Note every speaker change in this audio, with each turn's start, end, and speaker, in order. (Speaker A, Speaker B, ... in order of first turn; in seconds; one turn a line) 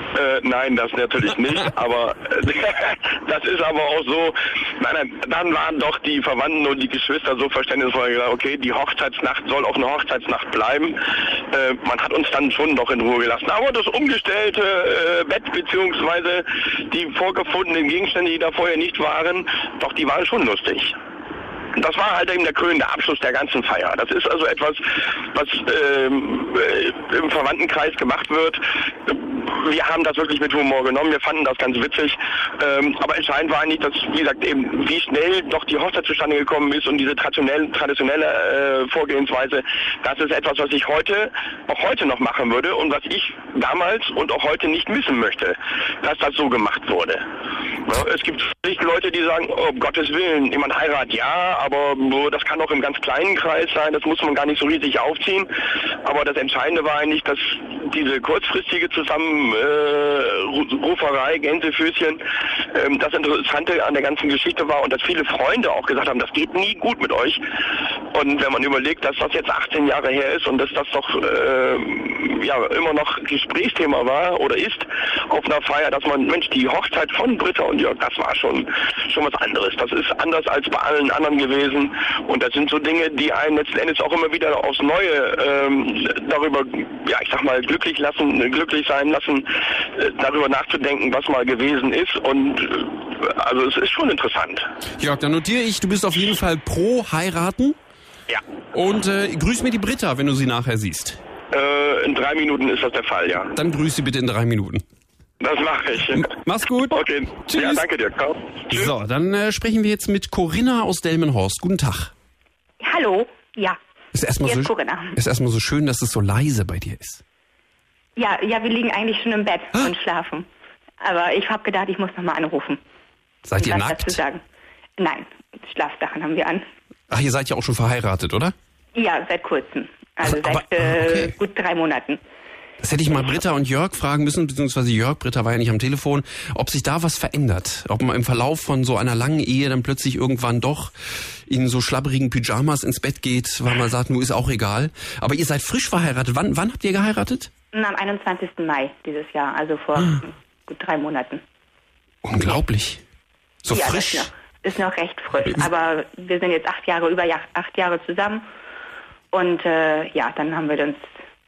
Speaker A: 0.1-21.0
Speaker A: 21.8-47.3
Speaker A: 47.8-55.5
Speaker A: 56.0-67.4
Speaker A: 68.1-94.7
Speaker B: 95.0-97.8
Speaker B: 98.7-101.2
Speaker A: 101.5-103.5
Speaker B: 103.5-104.8
Speaker A: 105.4-106.3
Speaker B: 106.1-107.9
Speaker A: 106.9-108.9
Speaker B: 108.7-112.1
Speaker C: 112.8-113.8
Speaker B: 114.1-117.2
Speaker C: 114.4-115.2
Speaker C: 118.2-120.5
Speaker C: 121.0-122.8
Speaker B: 123.5-124.2
Speaker C: 123.6-124.4
Speaker C: 125.0-126.7
Speaker B: 127.1-128.6
Speaker C: 128.9-132.2
Speaker B: 130.2-131.3
Speaker B: 132.8-147.5
Speaker C: 147.7-151.4
Speaker B: 152.2-153.0
Speaker B: 153.6-154.3
Speaker C: 153.7-158.4
Speaker C: 159.3-161.1